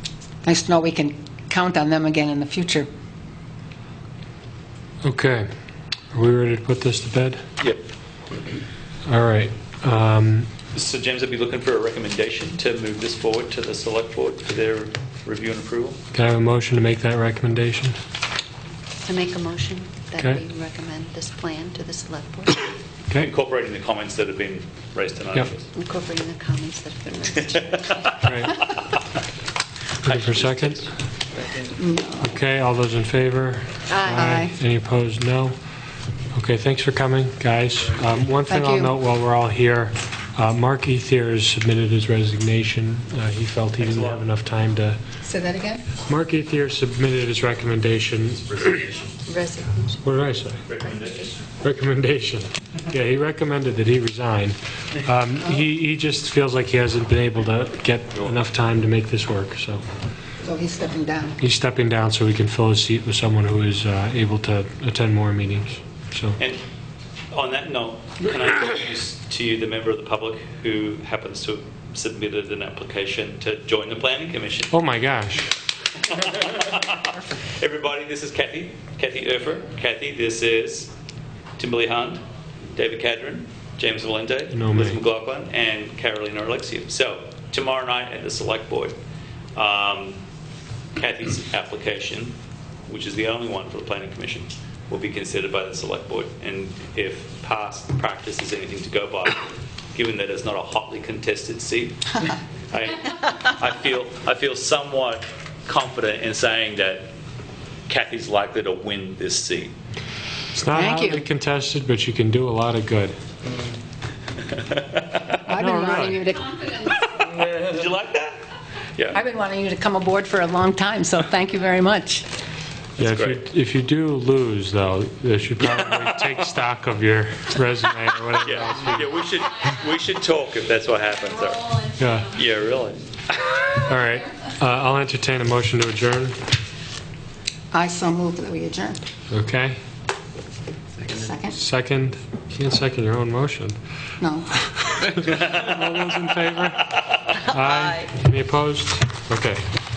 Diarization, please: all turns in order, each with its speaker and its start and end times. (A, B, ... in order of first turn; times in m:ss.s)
0:00.4-0:02.9 A
0:05.0-0:05.5 B
0:06.1-0:07.4 B
0:09.0-0:10.5 B
0:10.7-0:16.0 C
0:16.1-0:18.0 B
0:19.0-0:22.7 D
0:23.2-0:25.7 C
0:25.8-0:28.1 D
0:27.6-0:28.2 C
0:28.2-0:28.7 B
0:30.0-0:31.8 C
0:30.0-0:30.9 B
0:31.8-0:32.2 A
0:32.2-0:35.6 B
0:33.9-0:34.3 D
0:34.1-0:34.5 A
0:36.3-0:45.0 B
0:38.5-0:38.9 A
0:43.8-0:44.2 C
0:45.2-0:45.9 A
0:46.0-0:48.8 B
0:48.6-0:49.1 C
0:49.3-0:50.0 D
0:50.0-0:50.6 B
0:50.7-0:51.4 C
0:51.5-0:59.8 B
1:00.4-1:01.4 A
1:01.4-1:06.4 B
1:06.4-1:06.6 C
1:07.3-1:14.8 C
1:14.7-1:15.5 B
1:16.0-1:20.9 C
1:21.6-1:22.2 C
1:22.8-1:29.0 C
1:24.5-1:25.0 B
1:29.6-1:30.2 C
1:31.0-1:32.4 C
1:32.9-1:47.1 C
1:47.9-1:49.7 C
1:50.5-1:53.2 B
1:50.7-1:51.2 A
1:54.5-1:55.4 C
1:55.5-1:57.0 A
1:55.6-1:56.3 B
1:57.0-1:58.4 C
1:59.1-2:02.3 A
2:03.0-2:03.4 C
2:03.0-2:09.2 B
2:05.7-2:06.2 C
2:08.4-2:13.6 C
2:12.0-2:12.3 B
2:13.8-2:16.4 B
2:17.7-2:19.0 A
2:19.3-2:19.8 B
2:21.1-2:21.6 A
2:21.5-2:23.8 B
2:24.2-2:24.5 A
2:24.6-2:29.7 B
2:25.3-2:25.6 C
2:27.6-2:28.1 D